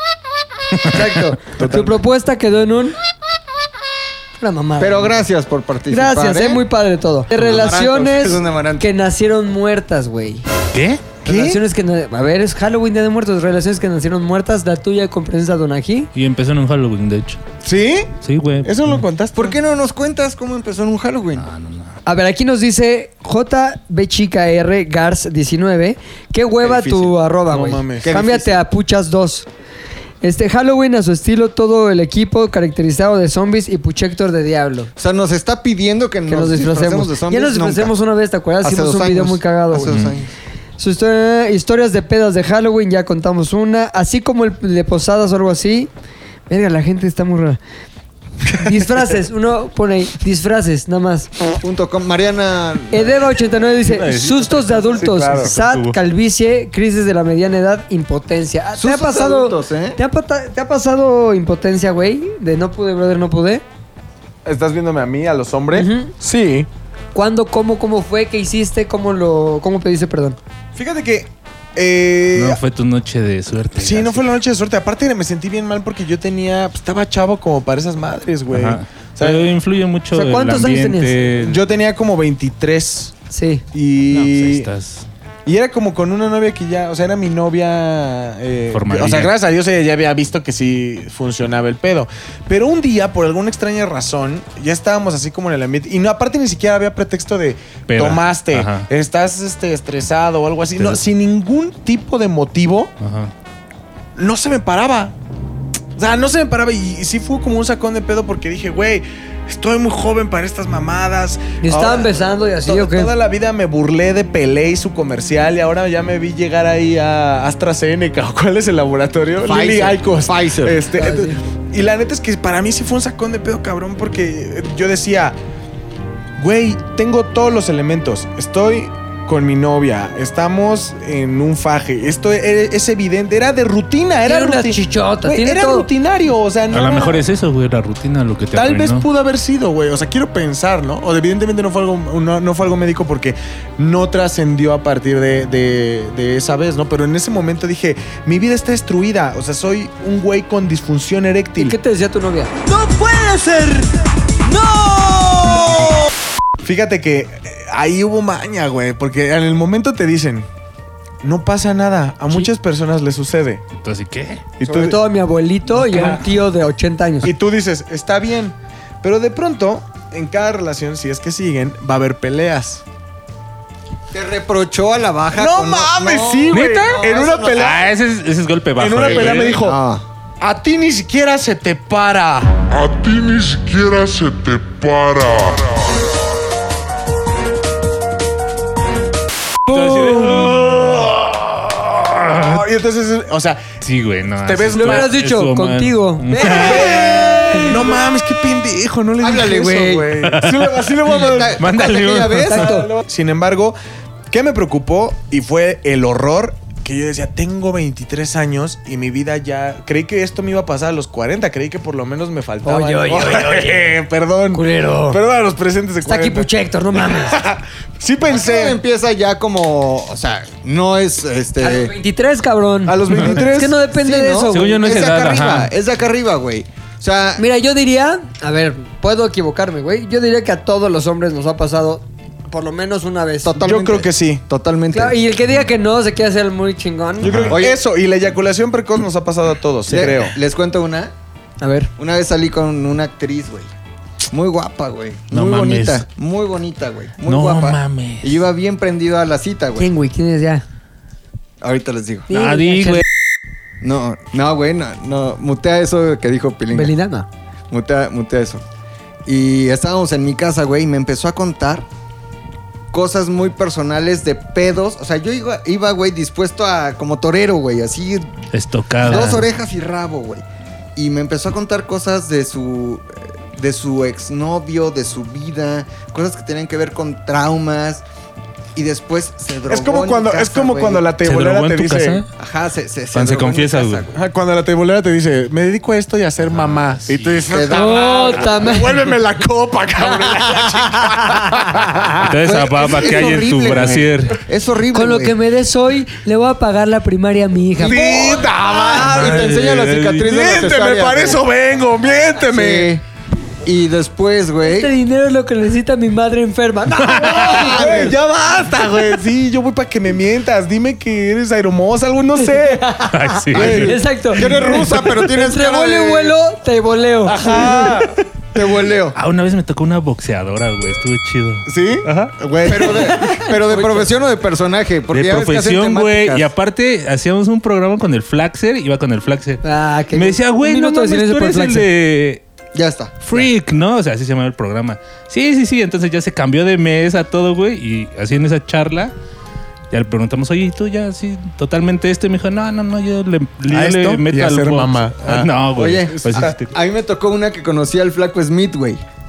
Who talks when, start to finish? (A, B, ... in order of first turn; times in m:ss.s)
0:00.9-0:03.0 A
0:01.6-0:02.0 B
0:04.4-0:05.2 A
0:04.8-0:06.6 C
0:05.9-0:10.4 A
0:07.3-0:08.9 C
0:10.7-0:11.1 D
0:11.2-0:16.1 A
0:11.2-0:11.6 B
0:16.1-0:17.4 D
0:17.6-0:18.1 B
0:18.2-0:19.0 D
0:18.6-0:19.6 B
0:19.3-0:21.5 C
0:21.4-0:21.9 D
0:22.0-0:29.5 A
0:26.6-0:27.1 C
0:26.7-0:28.4 B
0:28.0-0:28.5 C
0:30.2-0:34.9 A
0:35.0-0:37.9 C
0:36.3-0:40.0 A
0:38.6-0:40.3 C
0:39.9-0:40.1 D
0:40.8-0:45.9 A
0:46.5-0:47.6 A
0:48.6-0:51.3 A
0:51.6-0:53.2 C
0:52.9-1:03.6 A
0:53.8-0:55.5 B
0:53.9-0:54.6 D
0:55.2-0:56.0 D
0:58.8-1:00.0 C
1:04.4-1:06.7 B
1:05.7-1:06.1 A
1:07.1-1:10.4 A
1:10.7-1:12.6 B
1:12.3-1:14.2 D
1:13.8-1:19.4 B
1:18.5-1:21.6 D
1:20.1-1:21.3 A
1:21.4-1:23.1 B
1:23.3-1:23.6 A
1:23.7-1:24.7 B
1:24.1-1:25.1 D
1:25.4-1:42.9 B
1:28.7-1:29.3 D
1:37.9-1:38.9 D
1:40.8-1:41.0 D
1:43.0-1:43.3 D
1:44.2-1:45.1 B
1:46.0-2:05.4 B
1:51.6-1:53.1 A
1:59.4-2:00.9 C
2:01.0-2:01.4 A
2:06.4-2:17.2 B
2:14.2-2:15.9 A
2:16.7-2:19.1 D
2:18.5-2:31.8 B
2:31.6-2:33.9 A
2:34.4-2:35.8 A
2:36.6-2:40.5 B
2:41.2-2:43.6 B
2:43.7-2:44.4 D
2:44.6-2:45.0 B
2:44.6-2:47.3 A
2:45.7-2:46.3 B
2:47.2-2:52.8 B
2:54.1-2:57.7 C
2:55.4-2:57.9 B
2:56.5-2:57.0 D
2:57.5-2:59.6 D
2:58.8-2:59.8 B
2:59.0-3:00.0 C
3:00.4-3:02.6 B
3:02.7-3:05.6 E
3:09.7-3:11.1 B
3:09.7-3:12.6 D
3:12.3-3:13.7 B
3:13.8-3:17.0 D
3:14.4-3:15.1 B
3:14.7-3:18.0 A
3:16.4-3:21.6 B
3:17.0-3:17.6 C
3:19.2-3:20.2 C
3:20.2-3:20.8 D
3:21.1-3:22.8 C
3:21.6-3:22.5 D
3:22.4-3:23.8 B
3:22.5-3:22.9 A
3:24.3-3:38.8 B
3:32.6-3:33.9 A
3:34.5-3:35.2 A
3:36.0-3:37.4 A
3:38.2-3:41.9 C
3:41.6-3:44.8 A
3:42.8-3:43.8 B
3:43.1-3:43.4 D
3:43.9-3:47.4 C
3:44.5-3:45.7 D
3:47.4-3:53.6 A
3:53.4-3:55.2 C
3:53.6-3:54.4 B
3:54.9-3:57.3 A
3:57.2-3:57.6 D
3:57.2-4:00.4 B
3:57.5-3:57.8 C
3:59.9-4:01.1 C
4:01.6-4:01.9 A
4:02.0-4:03.7 C
4:04.3-4:09.9 C
4:05.3-4:06.0 D
4:07.2-4:08.4 D
4:09.8-4:10.6 A
4:11.6-4:12.3 C
4:12.3-4:13.0 A
4:12.3-4:13.0 D
4:13.8-4:16.9 C
4:16.7-4:17.3 A
4:17.7-4:18.6 C
4:19.2-4:21.9 C
4:22.9-4:28.3 C
4:28.5-4:29.4 D
4:29.0-4:30.4 C
4:31.0-4:38.0 C
4:38.7-4:41.1 C
4:39.7-4:42.2 B
4:41.2-4:42.2 D
4:42.4-4:44.2 C
4:43.1-4:44.0 D
4:44.1-4:52.3 B
4:46.4-4:47.4 D
4:47.5-4:48.6 C
4:47.7-4:49.1 A
4:52.2-4:54.4 D
4:52.4-4:55.4 C
4:54.9-4:58.3 A
4:57.8-5:01.4 C
4:57.8-4:59.6 B
4:59.0-5:00.3 D
5:00.2-5:02.9 B
5:02.4-5:03.0 C
5:03.6-5:04.9 C
5:04.6-5:08.1 A
5:07.0-5:07.7 D
5:07.3-5:08.2 C
5:07.3-5:13.0 B
5:12.4-5:14.5 A
5:13.1-5:13.9 D
5:13.5-5:15.1 B
5:13.5-5:16.4 C
5:15.0-5:18.0 A
5:17.2-5:18.2 B
5:18.5-5:19.2 C
5:19.1-5:22.3 D
5:21.7-5:22.0 C
5:22.3-5:23.2 B
5:22.6-5:26.5 C
5:22.7-5:24.0 A
5:25.1-5:32.4 D
5:29.6-5:31.9 A
5:32.7-5:33.5 C
5:33.2-5:39.1 D
5:39.9-5:46.7 D
5:43.7-5:45.5 B
5:45.7-5:49.0 C
5:46.1-5:46.6 B